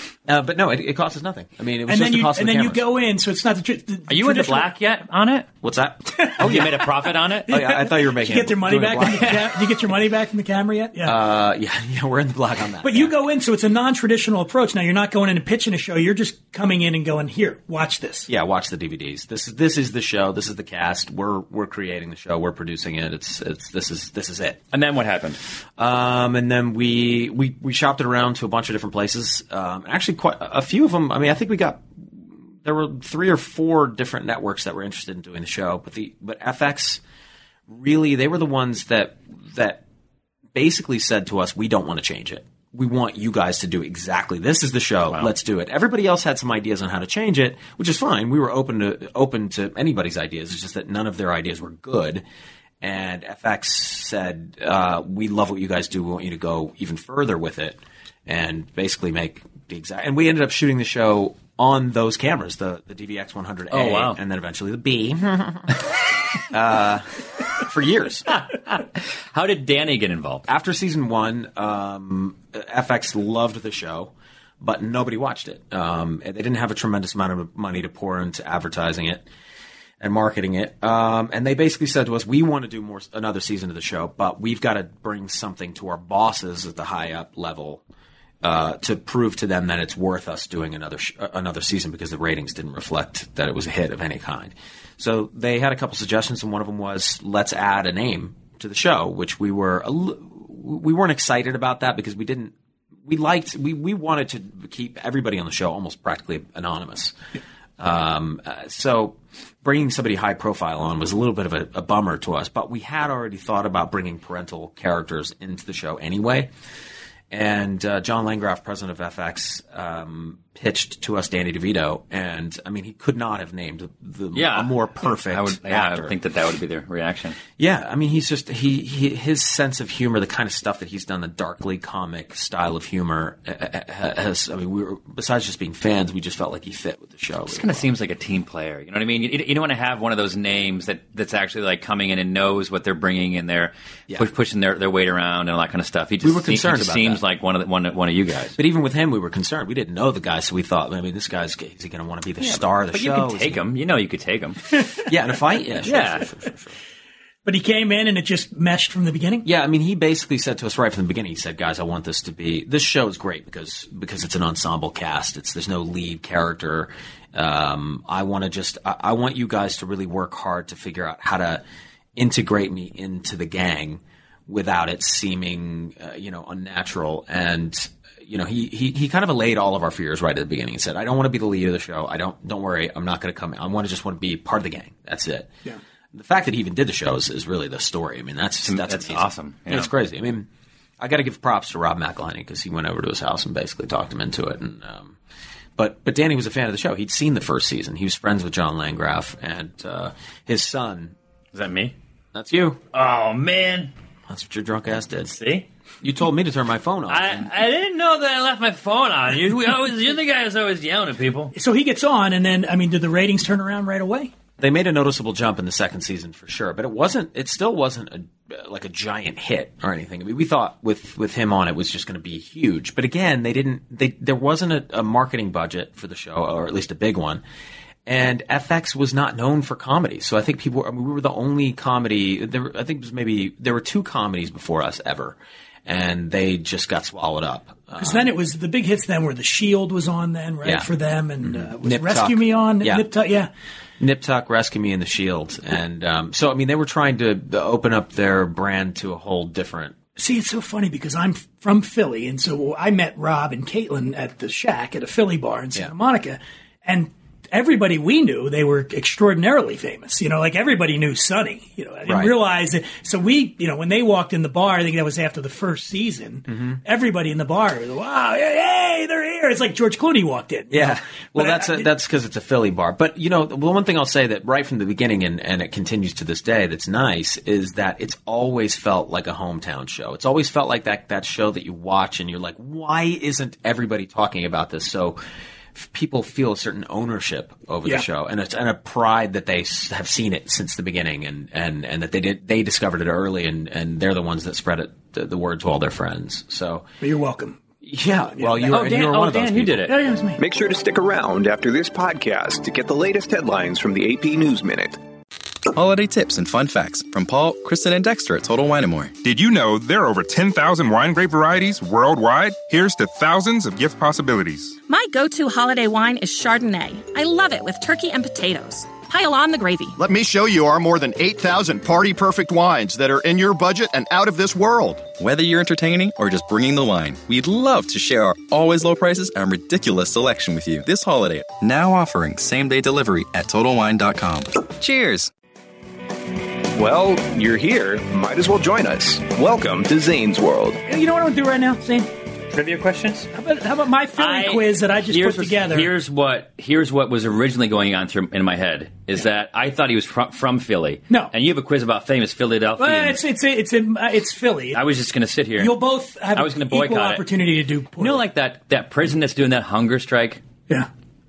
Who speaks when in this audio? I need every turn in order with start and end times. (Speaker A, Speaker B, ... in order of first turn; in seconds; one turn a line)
Speaker A: 0.3-2.9
Speaker B: 1.9-4.7
Speaker C: 4.1-5.5
Speaker A: 5.6-6.9
Speaker B: 6.1-6.5
Speaker C: 6.4-7.5
Speaker A: 7.5-9.9
Speaker B: 7.5-11.2
Speaker A: 11.0-13.1
Speaker B: 12.8-18.3
Speaker A: 18.3-24.6
Speaker C: 24.7-25.4
Speaker A: 25.8-31.8
Speaker A: 32.6-37.0
Speaker A: 37.7-39.8
Speaker A: 40.5-52.2
Speaker A: 52.8-68.3
Speaker C: 63.7-64.2
Speaker C: 68.3-70.5
Speaker A: 70.5-79.2
Speaker A: 80.0-87.8
Speaker A: 88.4-102.5
Speaker A: 103.0-107.1
Speaker A: 107.8-116.5
Speaker A: 117.3-126.1
Speaker C: 124.3-127.4
Speaker A: 127.6-137.9
Speaker C: 137.5-148.6
Speaker A: 146.2-147.2
Speaker A: 148.6-153.6
Speaker C: 152.4-154.6
Speaker A: 155.1-156.7
Speaker C: 155.8-156.2
Speaker B: 157.4-159.4
Speaker A: 159.4-171.6
Speaker A: 172.2-185.5
Speaker A: 186.1-190.5
Speaker C: 188.6-189.9
Speaker A: 191.0-195.2
Speaker A: 195.8-201.1
Speaker C: 201.5-201.9
Speaker A: 202.3-202.8
Speaker C: 202.9-203.9
Speaker A: 204.3-205.3
Speaker C: 205.3-205.7
Speaker A: 206.0-207.4
Speaker C: 207.1-211.5
Speaker B: 211.5-214.3
Speaker A: 214.6-227.4
Speaker A: 228.1-238.3
Speaker B: 238.0-243.5
Speaker A: 240.6-240.9
Speaker A: 241.4-243.0
Speaker A: 244.0-249.9
Speaker B: 250.2-271.9
Speaker A: 262.1-262.4
Speaker A: 266.5-266.8
Speaker A: 270.7-285.2
Speaker A: 285.7-296.8
Speaker B: 297.0-297.6
Speaker A: 297.8-299.9
Speaker B: 298.3-299.0
Speaker C: 298.7-299.9
Speaker B: 299.8-300.4
Speaker D: 300.4-305.0
Speaker E: 305.7-309.1
Speaker F: 309.2-314.8
Speaker G: 314.9-319.9
Speaker H: 320.0-325.1
Speaker E: 325.2-335.3
Speaker D: 336.7-340.8
Speaker B: 340.9-342.1
Speaker C: 342.5-343.3
Speaker B: 343.3-345.9
Speaker C: 344.2-353.2
Speaker B: 352.8-354.8
Speaker C: 354.7-355.8
Speaker B: 355.6-358.2
Speaker C: 356.3-357.2
Speaker C: 358.0-360.4